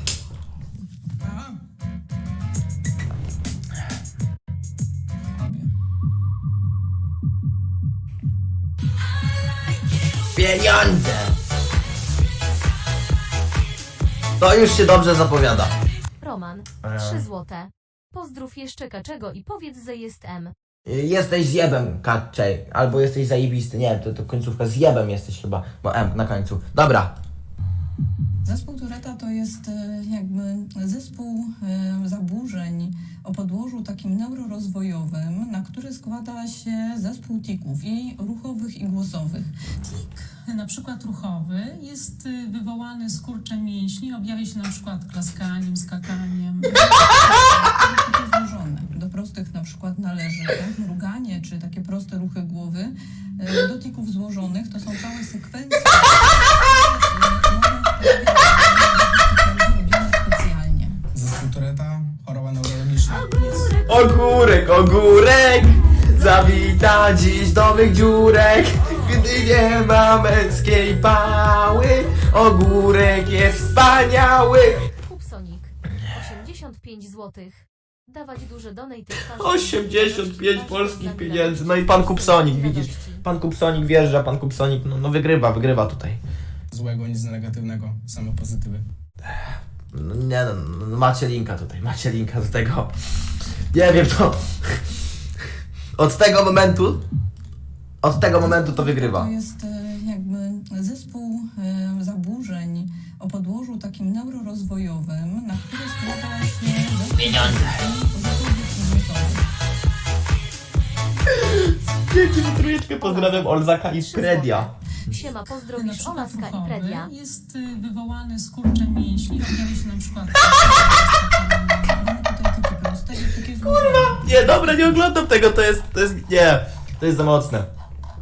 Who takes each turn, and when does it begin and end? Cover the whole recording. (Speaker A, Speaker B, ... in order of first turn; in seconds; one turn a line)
Speaker A: 10.3-11.3
Speaker A: 14.4-15.7
Speaker B: 16.2-20.5
Speaker A: 16.8-17.2
Speaker A: 20.9-27.1
Speaker C: 28.4-39.5
Speaker D: 39.8-46.9
Speaker C: 47.1-61.0
Speaker E: 61.1-63.8
Speaker B: 63.4-64.4
Speaker A: 63.8-74.9
Speaker B: 66.2-66.4
Speaker B: 73.3-73.9
Speaker B: 75.0-83.2
Speaker A: 79.3-86.2
Speaker E: 86.7-88.8
Speaker A: 89.9-92.9
Speaker A: 93.7-94.8
Speaker A: 96.0-97.0
Speaker A: 98.0-99.3
Speaker C: 98.4-109.4
Speaker A: 107.2-107.7
Speaker A: 111.3-114.7
Speaker B: 113.0-117.1
Speaker D: 115.7-122.1
Speaker C: 122.0-125.0
Speaker A: 124.0-127.7